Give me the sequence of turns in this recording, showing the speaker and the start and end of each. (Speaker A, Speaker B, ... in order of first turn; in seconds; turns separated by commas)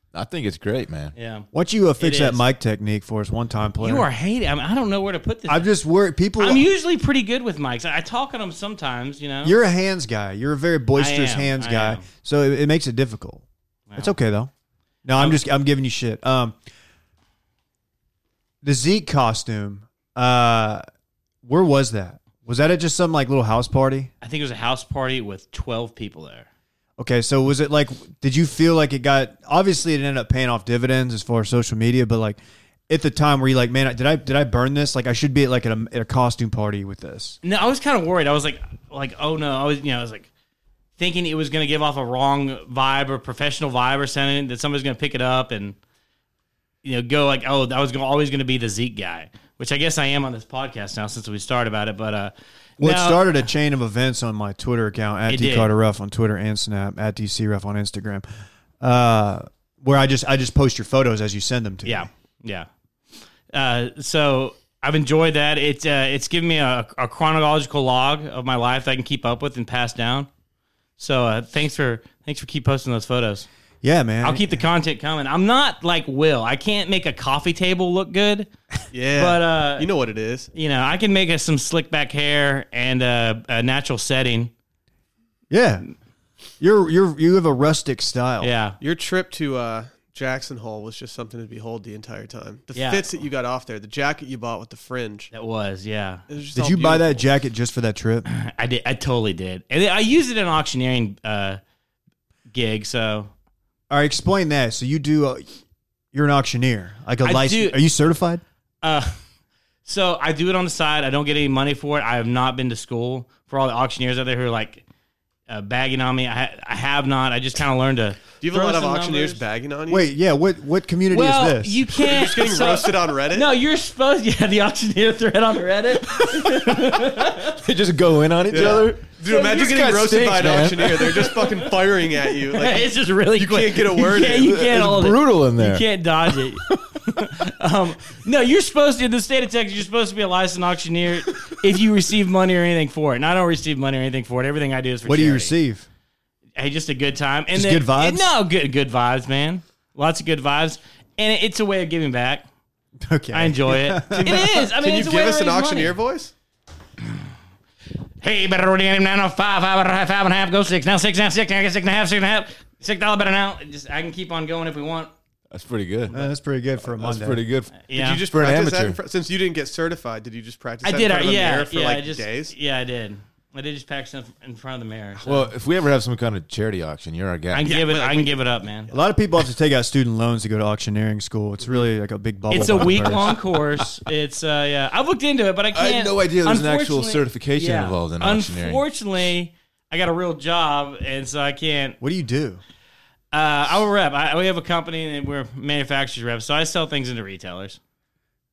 Speaker A: 0.1-1.1, Speaker B: 1.1-1.5, Speaker C: 1.5-4.1, Speaker B: 2.0-2.4, Speaker B: 3.8-5.7, Speaker C: 5.5-6.7, Speaker B: 6.4-9.6, Speaker C: 9.4-13.4, Speaker B: 11.0-12.0, Speaker C: 13.9-14.5, Speaker C: 15.0-16.6, Speaker C: 18.6-20.8, Speaker C: 21.4-24.1, Speaker B: 24.2-26.5, Speaker C: 27.0-37.4, Speaker B: 37.4-40.3, Speaker B: 41.0-45.8, Speaker B: 46.8-53.3, Speaker C: 52.8-58.3, Speaker B: 55.3-55.7, Speaker C: 58.8-62.1, Speaker B: 61.8-62.7, Speaker B: 63.5-70.3, Speaker B: 71.0-73.5, Speaker C: 73.8-74.6, Speaker B: 74.2-78.5, Speaker D: 78.9-80.5, Speaker B: 79.2-79.9, Speaker B: 80.5-84.5, Speaker C: 85.5-85.8, Speaker C: 86.6-88.5, Speaker B: 88.4-88.8, Speaker D: 88.8-95.3, Speaker B: 92.7-93.1, Speaker B: 95.3-96.2, Speaker D: 96.3-97.2, Speaker C: 96.5-98.2, Speaker B: 98.2-101.6, Speaker B: 102.5-103.3, Speaker C: 103.9-105.4, Speaker C: 106.1-108.4, Speaker B: 107.2-107.8, Speaker B: 108.8-109.1, Speaker B: 109.8-114.8, Speaker B: 115.5-119.4, Speaker D: 118.4-120.1, Speaker C: 119.9-121.8, Speaker B: 121.1-127.6, Speaker D: 122.0-123.5, Speaker A: 127.3-131.4, Speaker D: 128.5-134.5, Speaker B: 131.4-131.7, Speaker B: 132.5-145.5, Speaker A: 134.4-135.9, Speaker A: 136.4-137.2, Speaker C: 145.0-145.9, Speaker B: 146.6-152.4, Speaker C: 147.5-148.3, Speaker C: 153.0-154.4, Speaker B: 153.3-156.0, Speaker D: 154.1-156.3, Speaker B: 158.2-165.1, Speaker A: 165.5-166.2, Speaker C: 166.1-167.4, Speaker A: 166.9-167.8, Speaker B: 167.8-168.2, Speaker D: 167.9-172.5, Speaker A: 168.3-169.0, Speaker B: 170.8-175.5, Speaker A: 175.2-177.7, Speaker B: 177.5-178.9, Speaker D: 177.6-178.4, Speaker C: 178.9-183.4, Speaker B: 182.5-192.0, Speaker A: 182.6-183.3, Speaker A: 185.7-188.8, Speaker C: 192.0-192.6, Speaker B: 193.3-197.8